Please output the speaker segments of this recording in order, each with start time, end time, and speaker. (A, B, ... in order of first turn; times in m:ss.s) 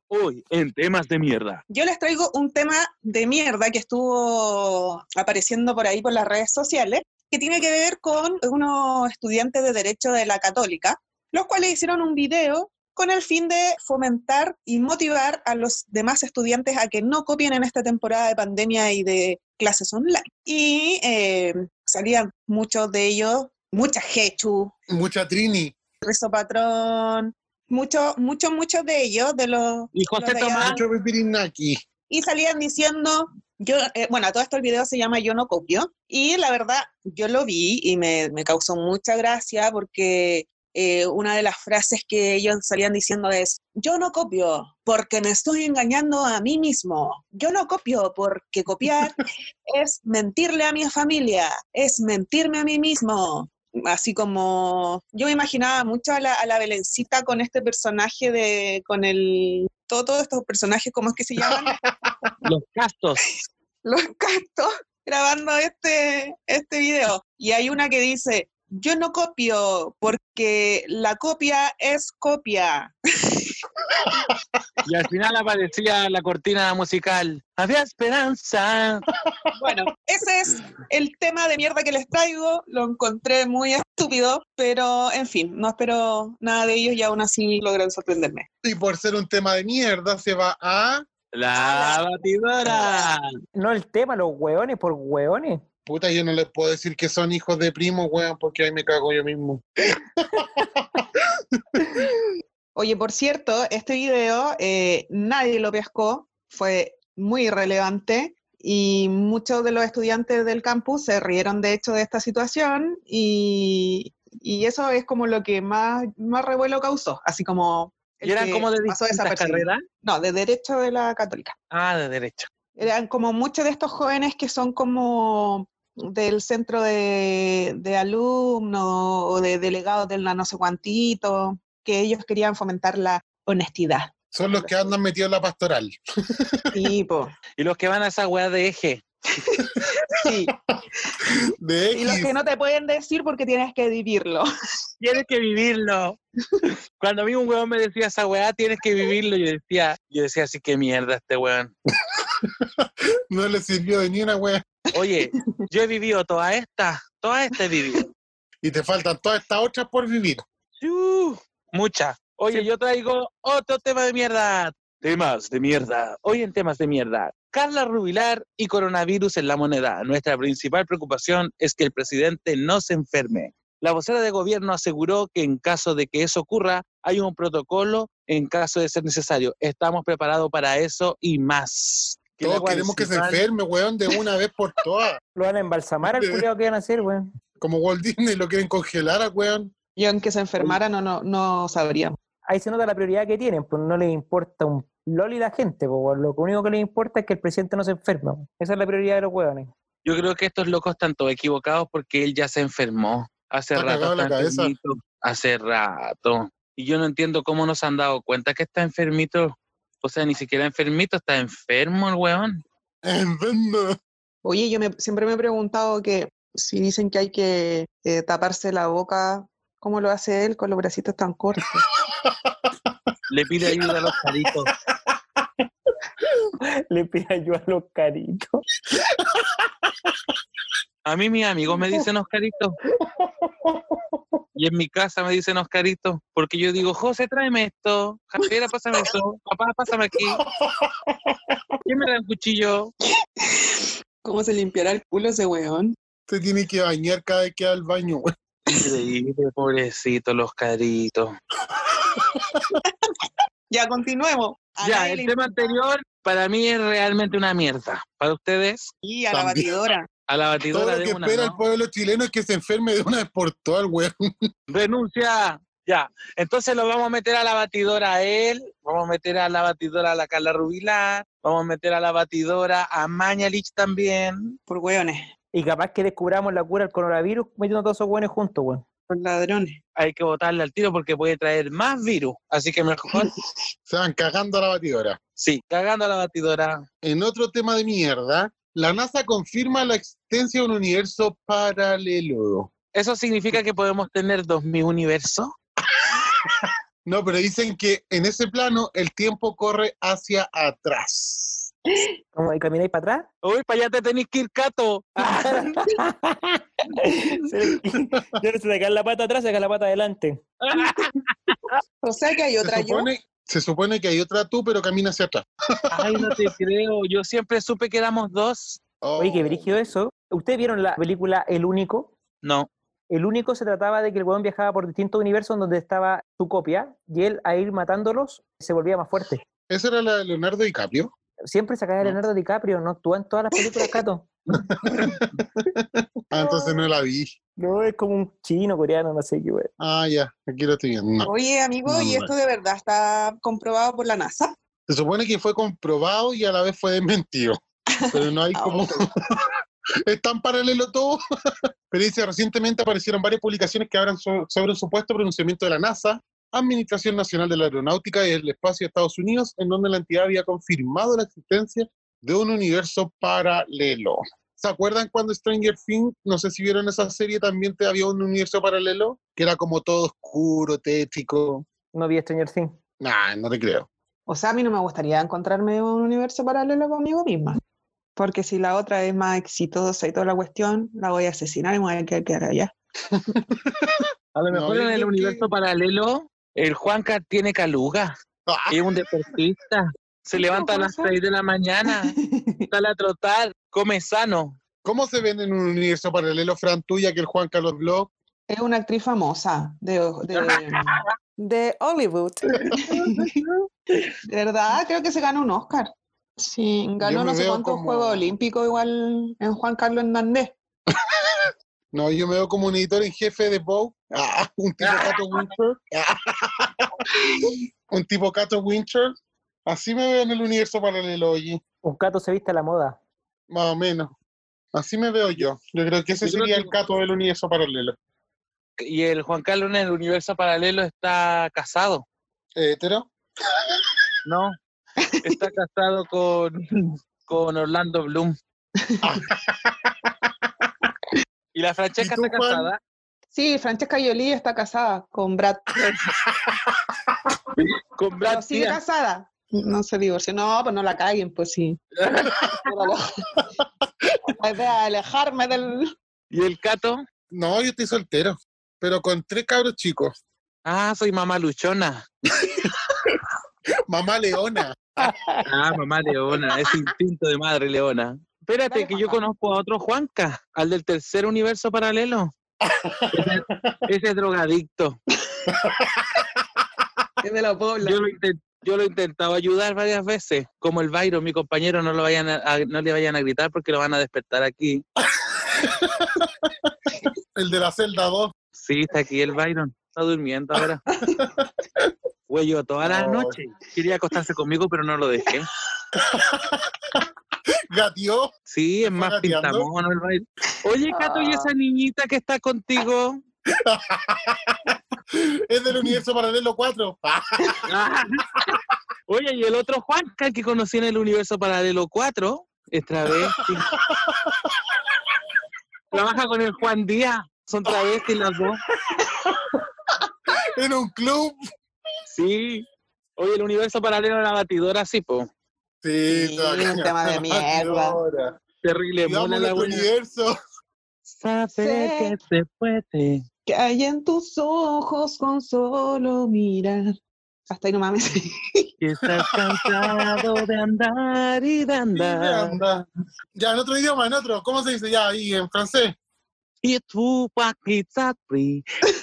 0:00.1-0:01.6 A
0:01.7-0:24.7 B
0:24.9-0:25.8 C
0:26.0-0:30.8 B
0:30.0-0:30.8 A
0:30.6-0:31.8 C
0:32.1-1:01.8 B
1:01.7-1:02.3 C
1:02.4-1:03.2 A
1:03.8-1:13.5 B
1:14.9-1:19.1 A
1:19.6-1:28.5 B
1:28.6-1:31.1 C
1:31.3-1:33.2 A
1:31.6-1:32.0 B
1:32.7-1:33.1 B
1:33.6-1:35.6 D
1:35.9-1:41.0 C
1:41.6-1:42.0 C
1:42.8-2:01.6 B
1:58.2-1:59.8 A
2:01.7-2:02.5 A
2:02.8-2:14.9 B
2:14.3-2:16.6 C
2:16.7-2:17.3 B
2:17.6-2:19.0 A
2:19.4-2:20.5 B
2:21.3-2:22.3 C
2:21.9-2:24.5 B
2:25.0-2:26.2 A
2:27.0-2:31.7 A
2:32.4-2:34.6 C
2:34.9-2:38.1 A
2:35.3-2:35.6 B
2:38.6-2:40.4 C
2:40.8-3:03.4 A
3:02.4-3:05.2 C
3:05.4-3:07.3 D
3:06.0-3:06.4 C
3:07.6-3:09.7 C
3:10.0-3:12.2 B
3:12.5-3:19.7 D
3:20.0-3:32.6 A
3:23.8-3:24.7 C
3:33.0-3:34.0 C
3:34.4-3:41.8 B
3:42.1-3:42.4 C
3:43.3-3:44.7 A
3:43.8-3:44.2 C
3:46.9-3:48.6 D
3:51.0-3:52.8 A
3:53.2-3:54.0 C
3:54.6-4:00.4 A
4:00.5-4:01.6 C
4:01.9-4:02.9 A
4:03.5-4:06.0 B
4:06.3-4:08.3 C
4:08.7-4:11.4 A
4:12.2-4:12.7 C
4:13.7-4:15.8 B
4:14.8-4:18.9 A
4:19.0-4:20.1 B
4:19.3-4:19.7 C
4:20.3-4:21.6 A
4:20.7-4:24.4 C
4:24.7-4:34.6 A
4:34.7-4:35.3 B
4:35.5-4:38.8 D
4:39.1-4:39.8 B
4:40.0-4:43.3 A
4:43.9-4:45.2 C
4:45.4-4:46.8 A
4:47.0-4:52.7 C
4:52.9-4:55.5 A
4:55.9-5:01.7 C
5:02.3-5:03.3 D
5:03.4-5:05.8 A
5:05.2-5:10.5 D
5:10.6-5:11.7 A
5:12.0-5:13.1 B
5:12.6-5:16.4 C
5:15.9-5:18.8 A
5:19.0-5:19.8 C
5:19.2-5:22.1 D
5:22.4-5:22.7 A
5:23.1-5:29.4 D
5:29.7-5:31.1 C
5:31.5-5:34.3 D
5:34.5-5:37.3 C
5:36.4-5:36.8 B
5:37.6-5:39.7 D
5:39.8-5:41.3 C
5:41.2-5:44.5 B
5:41.9-5:42.3 C
5:44.9-5:47.6 C
5:48.0-5:49.0 B
5:48.1-5:49.4 C
5:50.1-5:51.2 C
5:51.9-6:11.7 C
6:11.9-6:12.8 D
6:13.0-6:13.9 C
6:14.3-6:17.6 B
6:18.2-6:22.7 B
6:23.2-6:23.9 C
6:24.4-6:28.1 A
6:24.5-6:25.4 C
6:28.5-6:28.8 C
6:28.7-6:32.2 A
6:30.3-6:31.1 B
6:31.9-6:32.7 B
6:32.7-6:34.6 A
6:34.8-6:38.1 C
6:38.5-6:43.3 B
6:40.4-6:41.0 A
6:42.7-6:43.2 C
6:44.2-6:50.6 B
6:47.0-6:48.3 C
6:51.9-6:56.9 C
6:54.8-6:55.5 A
6:57.4-7:01.6 C
7:01.8-7:03.0 D
7:03.5-7:04.1 C
7:04.7-7:08.0 C
7:06.2-7:06.7 A
7:08.8-7:12.0 A
7:12.6-7:13.1 C
7:14.3-7:14.6 A
7:15.0-7:15.4 B
7:15.2-7:18.4 A
7:18.8-7:19.1 B
7:19.0-7:20.1 C
7:21.5-7:22.8 A
7:22.0-7:22.7 C
7:23.3-7:25.9 B
7:26.3-7:26.6 C
7:27.6-7:28.8 A
7:28.2-7:31.8 B
7:32.0-7:32.7 A
7:32.5-7:33.3 B
7:34.3-7:35.9 B
7:36.3-7:37.0 A
7:37.3-7:40.2 C
7:40.6-7:42.1 A
7:42.5-7:43.2 C
7:43.9-7:45.1 C
7:45.5-7:52.3 A
7:48.7-7:49.2 B
7:52.6-7:53.8 C
7:53.1-7:55.0 A
7:55.5-7:56.3 C
7:57.2-7:58.0 B
7:57.8-8:04.8 A
8:05.0-8:06.5 C
8:07.4-8:08.3 C
8:08.6-8:10.8 A
8:10.9-8:11.3 B
8:11.2-8:11.5 C
8:12.3-8:15.5 A
8:12.8-8:13.4 C
8:16.0-8:17.0 C
8:17.7-8:18.3 C
8:18.5-8:23.2 A
8:18.8-8:19.7 C
8:20.9-8:21.5 B
8:23.5-8:27.7 C
8:27.7-8:28.4 A
8:29.1-8:33.7 A
8:33.2-8:34.6 C
8:35.9-8:38.6 A
8:40.6-8:41.4 C
8:42.1-8:42.7 A
8:43.2-8:45.3 A
8:45.8-8:48.4 C
8:46.1-8:48.0 B
8:48.6-8:49.9 A
8:49.0-8:50.3 C
8:51.1-8:53.2 A
8:51.5-8:52.2 B
8:53.5-8:57.0 B
8:57.5-8:58.6 B
8:58.8-9:02.6 A
8:59.7-9:00.3 C
9:02.0-9:02.8 C
9:03.4-9:06.0 C
9:06.6-9:08.6 A